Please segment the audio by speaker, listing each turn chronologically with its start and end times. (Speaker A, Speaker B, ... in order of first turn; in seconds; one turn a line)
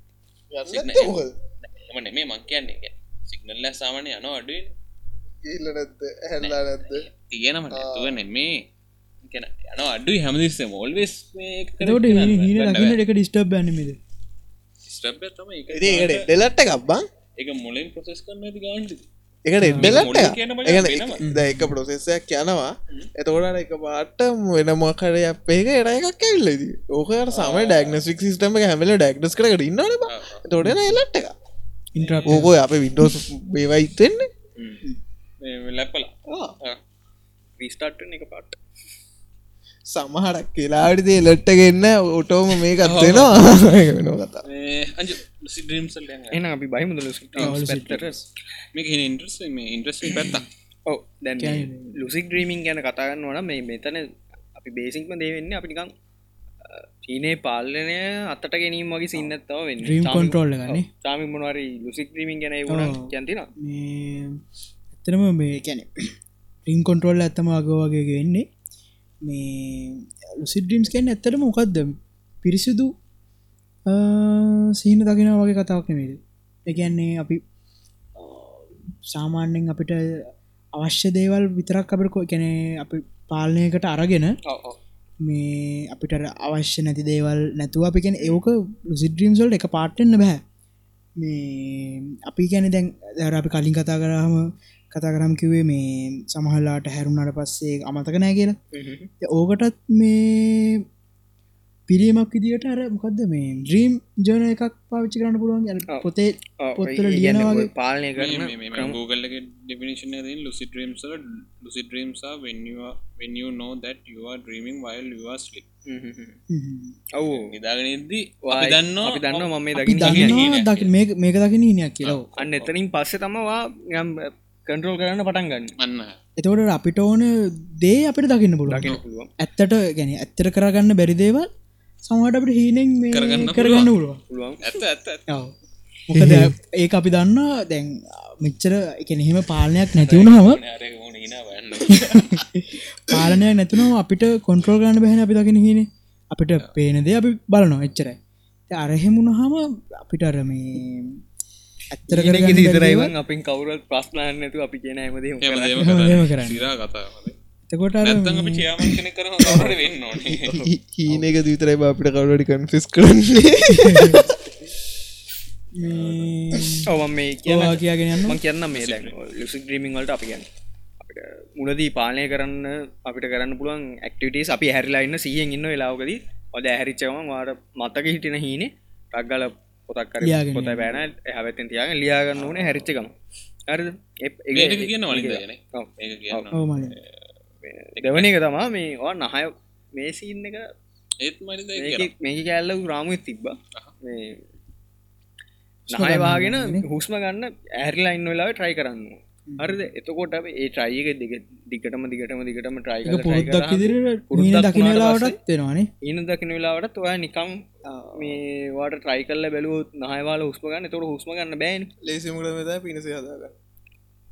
Speaker A: 0.5-1.4
Speaker B: 0.7-4.7
Speaker A: 5.5-7.1
Speaker B: 6.4-8.6
Speaker A: 7.7-8.2
Speaker B: 9.3-13.0
Speaker C: 11.8-14.0
Speaker B: 14.8-16.3
Speaker A: 15.7-17.1
Speaker B: 17.4-19.0
Speaker A: 19.5-31.3
Speaker C: 19.6-20.1
Speaker B: 19.8-21.3
Speaker C: 21.2-21.8
Speaker B: 27.3-28.0
Speaker B: 30.1-30.4
Speaker C: 30.6-31.0
Speaker C: 31.9-32.6
Speaker B: 32.0-32.5
Speaker A: 32.3-34.3
Speaker B: 35.4-36.1
Speaker A: 36.3-36.5
Speaker D: 37.6-38.6
Speaker A: 39.9-44.4
Speaker B: 42.8-43.8
Speaker B: 44.5-46.4
Speaker D: 46.3-48.2
Speaker C: 47.4-48.3
Speaker B: 48.7-50.5
Speaker D: 50.9-55.9
Speaker C: 51.4-51.9
Speaker D: 56.6-63.5
Speaker C: 59.8-60.9
Speaker C: 62.7-64.4
Speaker C: 65.0-65.9
Speaker C: 66.7-68.5
Speaker C: 69.2-72.9
Speaker C: 73.9-77.4
Speaker C: 78.2-80.2
Speaker C: 80.8-84.4
Speaker D: 84.5-84.8
Speaker C: 85.2-90.4
Speaker C: 91.2-98.6
Speaker D: 98.7-99.1
Speaker C: 99.2-100.8
Speaker C: 101.9-107.7
Speaker D: 105.9-109.0
Speaker B: 108.2-115.7
Speaker D: 115.9-116.4
Speaker C: 116.5-117.0
Speaker D: 117.2-117.5
Speaker B: 117.2-120.9
Speaker D: 118.5-120.5
Speaker C: 119.8-122.3
Speaker B: 122.0-122.7
Speaker D: 122.4-125.7
Speaker B: 125.8-126.2
Speaker C: 126.4-131.5
Speaker D: 128.7-129.3
Speaker C: 132.1-134.2
Speaker B: 133.1-133.9
Speaker D: 134.3-134.6
Speaker B: 134.6-135.3
Speaker C: 136.1-140.6
Speaker B: 140.0-142.4
Speaker C: 141.9-148.2
Speaker C: 148.7-151.2
Speaker C: 151.9-153.1
Speaker D: 152.1-155.9
Speaker B: 155.4-157.4
Speaker C: 155.8-156.7
Speaker C: 157.7-159.8
Speaker B: 158.0-160.5
Speaker D: 160.2-161.3
Speaker A: 160.6-164.4
Speaker C: 163.7-164.2
Speaker C: 165.8-166.9
Speaker B: 165.8-166.3
Speaker A: 166.6-166.8
Speaker D: 166.9-170.5
Speaker C: 167.4-168.4
Speaker B: 168.7-169.2
Speaker D: 171.0-183.2
Speaker C: 180.2-181.1
Speaker B: 182.4-182.8
Speaker D: 183.7-186.5
Speaker B: 184.5-187.1
Speaker C: 186.5-187.0
Speaker D: 187.6-190.7
Speaker B: 188.0-188.4
Speaker B: 191.2-192.1
Speaker D: 191.8-194.4
Speaker D: 195.9-205.4
Speaker C: 195.9-196.9
Speaker C: 199.5-199.8
Speaker C: 203.1-205.9
Speaker D: 206.0-211.9
Speaker C: 207.8-208.4
Speaker A: 212.0-213.5